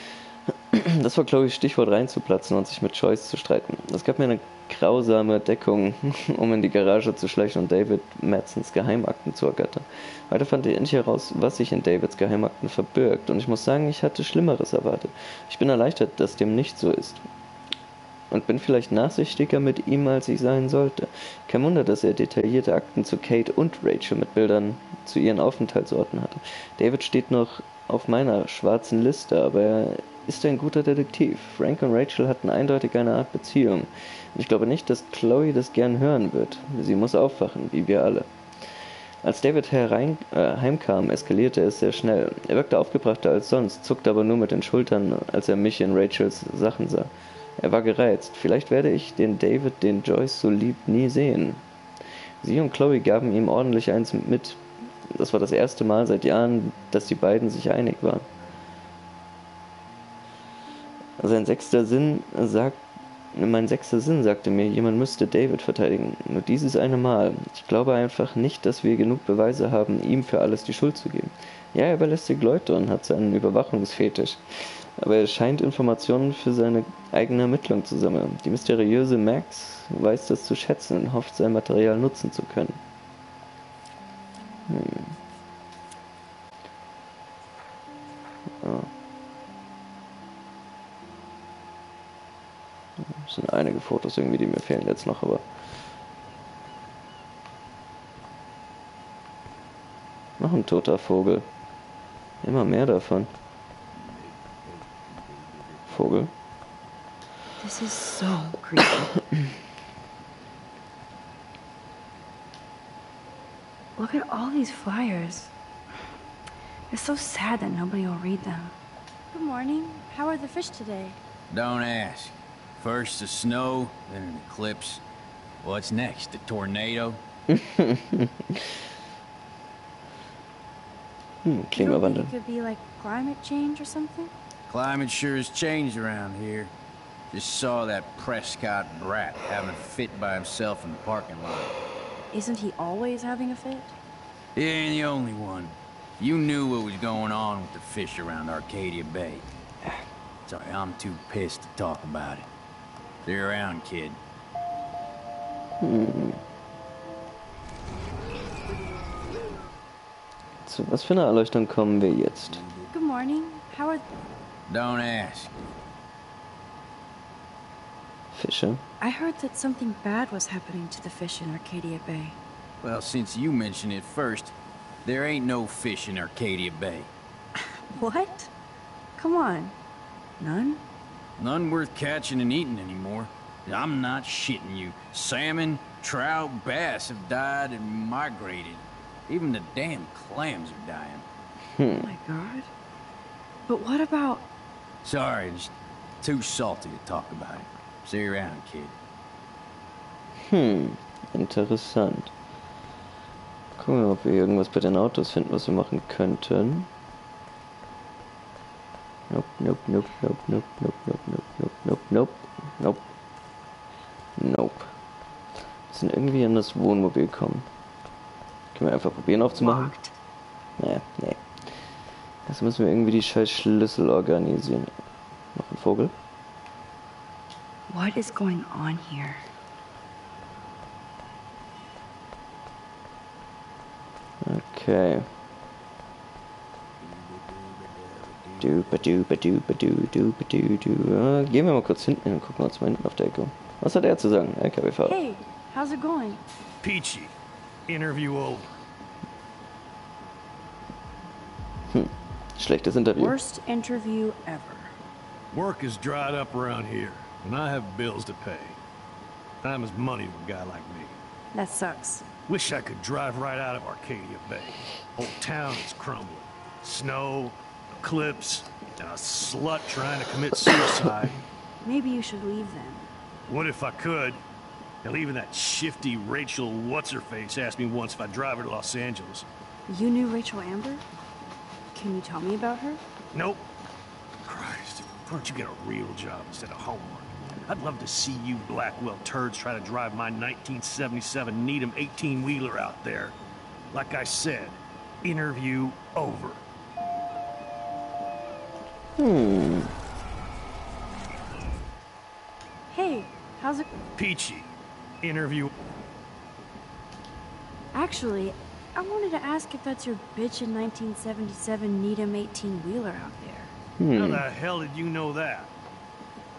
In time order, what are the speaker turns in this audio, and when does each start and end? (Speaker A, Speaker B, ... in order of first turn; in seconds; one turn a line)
Speaker A: 0.7-17.2
Speaker A: 18.3-38.3
Speaker A: 39.2-51.6
Speaker A: 52.4-54.6
Speaker A: 55.2-58.2
Speaker A: 61.2-62.8
Speaker A: 63.4-82.8
Speaker A: 84.7-85.2
Speaker A: 88.6-88.9
Speaker A: 93.1-95.4
Speaker A: 100.4-101.5
Speaker A: 102.4-103.3
Speaker A: 105.9-106.3
Speaker B: 107.6-109.1
Speaker B: 114.0-115.5
Speaker B: 116.9-118.7
Speaker B: 119.3-121.2
Speaker C: 121.5-125.0
Speaker C: 125.6-127.2
Speaker A: 127.5-128.3
Speaker A: 131.4-132.3
Speaker B: 131.7-134.3
Speaker C: 134.7-136.7
Speaker C: 137.3-141.8
Speaker B: 142.3-144.0
Speaker C: 144.6-149.5
Speaker C: 150.5-152.5
Speaker C: 153.2-154.2
Speaker A: 155.8-156.4
Speaker A: 160.7-162.7
Speaker B: 162.9-164.1
Speaker C: 164.7-165.6
Speaker A: 168.3-168.8
Speaker B: 169.0-172.4
Speaker C: 172.8-177.1
Speaker B: 177.9-178.5
Speaker B: 179.2-179.8
Speaker B: 180.4-180.8
Speaker C: 181.4-191.2
Speaker A: 191.8-192.1
Speaker B: 192.0-192.7
Speaker B: 193.7-194.5
Speaker C: 195.0-199.0
Speaker A: 200.5-202.3
Speaker A: 203.8-206.9
Speaker A: 209.3-213.1
Speaker A: 214.4-214.9
Speaker A: 215.9-217.7
Speaker A: 218.8-219.9
Speaker B: 219.6-220.2
Speaker A: 220.8-221.4
Speaker A: 222.5-224.9
Speaker A: 225.6-226.1
Speaker B: 227.9-229.5
Speaker A: 234.4-235.3
Speaker A: 238.6-245.2
Speaker B: 245.1-246.4
Speaker D: 246.8-247.3
Speaker D: 247.9-248.8
Speaker A: 251.9-253.4
Speaker B: 253.2-254.9
Speaker D: 255.5-258.8
Speaker D: 259.6-261.2
Speaker B: 261.5-262.3
Speaker D: 262.5-271.4
Speaker B: 271.8-273.1
Speaker D: 273.5-274.4
Speaker D: 275.0-279.5
Speaker B: 279.9-281.0
Speaker B: 281.9-283.0
Speaker D: 283.3-283.7
Speaker D: 284.4-293.4
Speaker D: 293.9-296.6
Speaker A: 299.2-299.9
Speaker B: 302.9-303.9
Speaker D: 304.2-305.7
Speaker B: 307.9-313.7
Speaker A: 314.0-314.5
Speaker D: 314.1-315.7